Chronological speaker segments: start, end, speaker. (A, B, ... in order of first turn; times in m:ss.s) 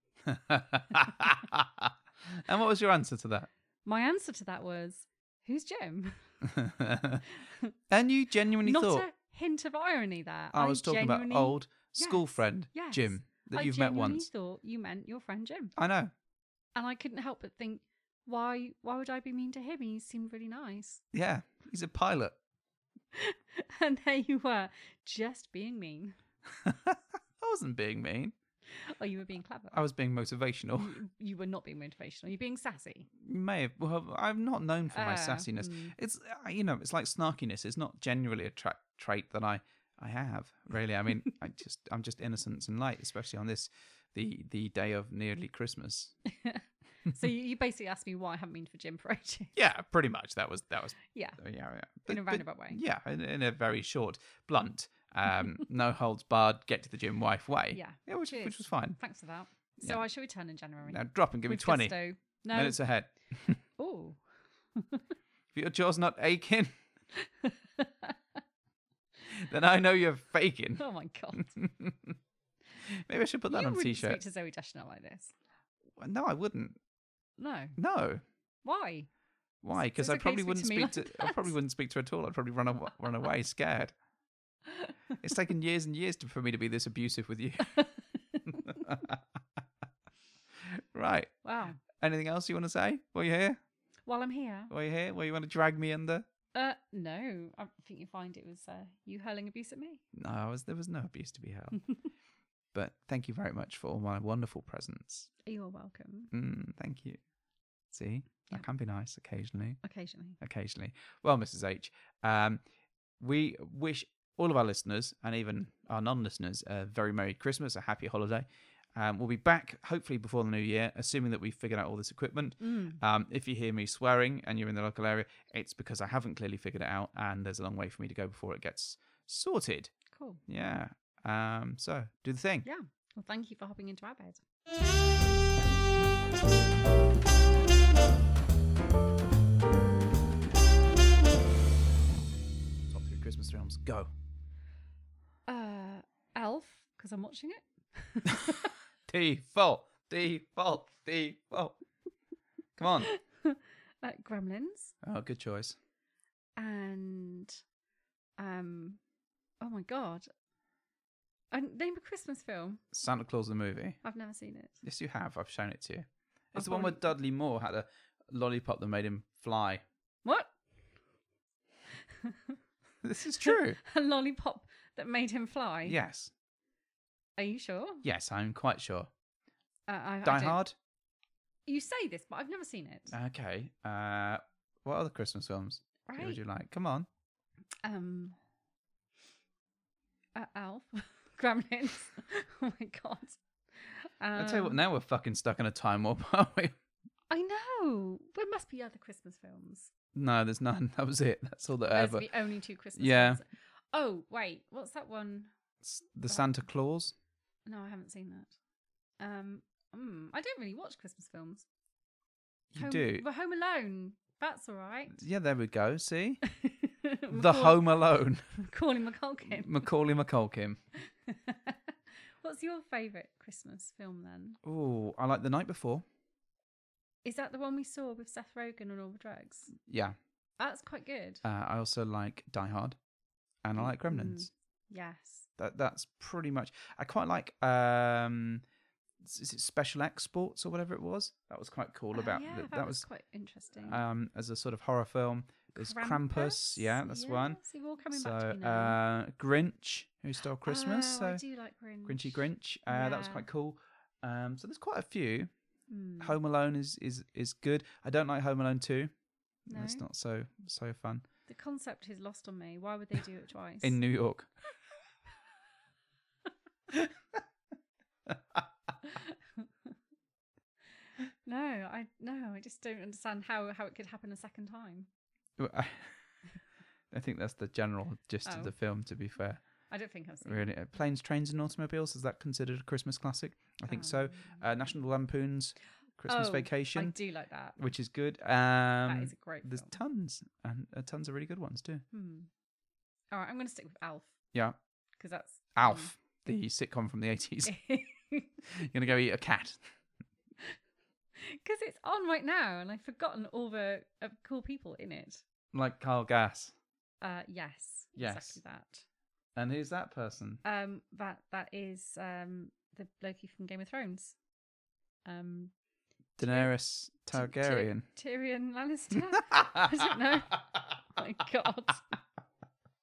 0:00.2-0:03.5 A
0:03.8-0:06.2 B
0:06.4-0:07.3 A
0:07.4-0:07.7 B
0:07.9-0:09.1 A
0:08.6-0:15.8 B
0:10.5-0:14.3 A
0:15.8-0:16.1 A
0:16.8-0:21.0 B
0:21.1-0:22.4 A
0:23.1-0:26.2 B
0:26.5-0:28.3 A
0:28.7-0:29.8 B
0:29.7-0:31.0 A
0:30.8-0:33.1 B
0:33.2-0:46.1 A
0:34.9-0:36.0 B
0:46.3-0:49.6 B
0:49.6-0:59.0 A
0:51.1-0:51.4 B
0:52.1-0:52.8 B
0:57.7-1:02.8 B
1:00.9-1:02.0 A
1:02.5-1:03.6 A
1:03.8-1:04.2 B
1:04.8-1:05.0 B
1:05.5-1:06.8 A
1:07.1-1:08.2 B
1:09.2-1:10.8 A
1:10.8-1:11.5 B
1:11.4-1:12.2 A
1:12.8-1:14.2 A
1:13.5-1:15.3 B
1:16.0-1:16.8 A
1:17.4-1:17.8 B
1:17.8-1:18.2 A
1:18.6-1:19.1 B
1:19.6-1:23.9 A
1:19.7-1:21.5 B
1:24.7-1:24.9 B
1:25.2-1:27.9 A
1:27.7-1:28.8 B
1:28.5-1:29.2 A
1:30.6-1:31.3 A
1:31.4-1:31.8 B
1:32.0-1:33.6 A
1:34.1-1:34.7 B
1:34.7-1:36.3 A
1:36.5-1:40.0 B
1:40.1-1:41.8 A
1:42.7-1:45.3 A
1:45.4-1:46.3 B
1:46.3-1:47.2 A
1:47.9-1:49.8 A
1:49.8-1:50.4 B
1:50.4-1:52.6 A
1:53.2-2:09.9 A
2:02.6-2:03.0 B
2:10.1-2:10.4 B
2:10.5-2:12.7 A
2:12.6-2:14.4 B
2:22.9-2:24.1 A
2:25.5-2:28.7 B
2:29.1-2:31.8 A
2:32.8-2:33.1 A
2:33.0-2:34.9 B
2:35.0-2:35.8 A
2:36.6-2:37.6 B
2:38.4-2:39.0 B
2:39.6-2:40.3 B
2:41.5-2:42.8 B
2:42.9-2:44.0 A
2:44.0-2:44.8 B
2:44.8-2:49.8 A
2:46.6-2:47.1 B
2:50.2-2:50.5 B
2:52.2-2:52.6 B
2:53.0-2:53.8 A
2:53.4-2:56.0 B
2:55.8-2:56.3 A
2:57.4-2:58.1 B
2:58.0-2:59.1 A
2:59.9-3:00.6 B
3:00.2-3:00.7 A
3:01.7-3:03.1 B
3:03.1-3:07.1 A
3:06.1-3:06.4 B
3:07.8-3:08.4 B
3:10.4-3:14.8 B
3:14.4-3:16.7 A
3:17.3-3:19.9 B
3:20.1-3:22.3 A
3:21.9-3:25.5 B
3:23.0-3:23.4 A
3:25.8-3:27.1 A
3:27.7-3:28.5 B
3:29.2-3:31.7 B
3:32.7-3:33.3 A
3:32.8-3:35.2 B
3:35.1-3:36.4 A
3:36.5-3:37.9 B
3:37.3-3:38.6 A
3:38.6-3:39.8 B
3:39.4-3:40.8 A
3:41.3-3:41.8 B
3:42.4-3:44.6 B
3:44.6-3:46.0 A
3:47.2-3:49.7 B
3:49.8-3:50.2 A
3:50.6-3:51.4 B
3:51.4-3:53.0 A
3:53.6-3:54.5 A
3:53.8-3:55.5 B
3:55.6-3:58.6 A
3:59.2-4:03.0 A
4:02.1-4:04.0 B
4:03.8-4:07.6 A
4:05.7-4:09.0 B
4:08.1-4:11.4 A
4:10.6-4:13.4 B
4:12.0-4:15.5 A
4:15.9-4:16.4 B
4:16.2-4:19.1 A
4:19.7-4:21.2 A
4:19.7-4:20.0 B
4:21.5-4:24.0 B
4:23.8-4:24.5 A
4:28.3-4:28.6 A
4:29.0-4:29.7 B
4:31.4-4:35.1 B
4:35.6-4:36.2 A
4:37.1-4:39.6 A
4:38.4-4:38.7 B
4:39.9-4:40.7 B
4:40.4-4:47.2 A
4:43.9-4:44.6 B
4:46.3-4:47.9 B
4:47.8-4:52.0 A
4:49.0-4:50.0 B
4:52.1-4:52.5 B
4:53.3-4:54.3 B
4:55.2-4:56.1 B
4:55.8-4:57.8 A
4:57.7-4:58.5 B
4:58.7-4:59.8 A
5:01.4-5:05.4 B
5:05.7-5:06.7 A
5:07.2-5:09.0 B
5:08.2-5:08.6 A
5:09.6-5:10.6 A
5:10.6-5:14.4 B
5:15.3-5:15.7 B
5:16.4-5:18.1 A
5:16.4-5:16.7 B
5:17.3-5:22.2 B
5:19.4-5:20.1 A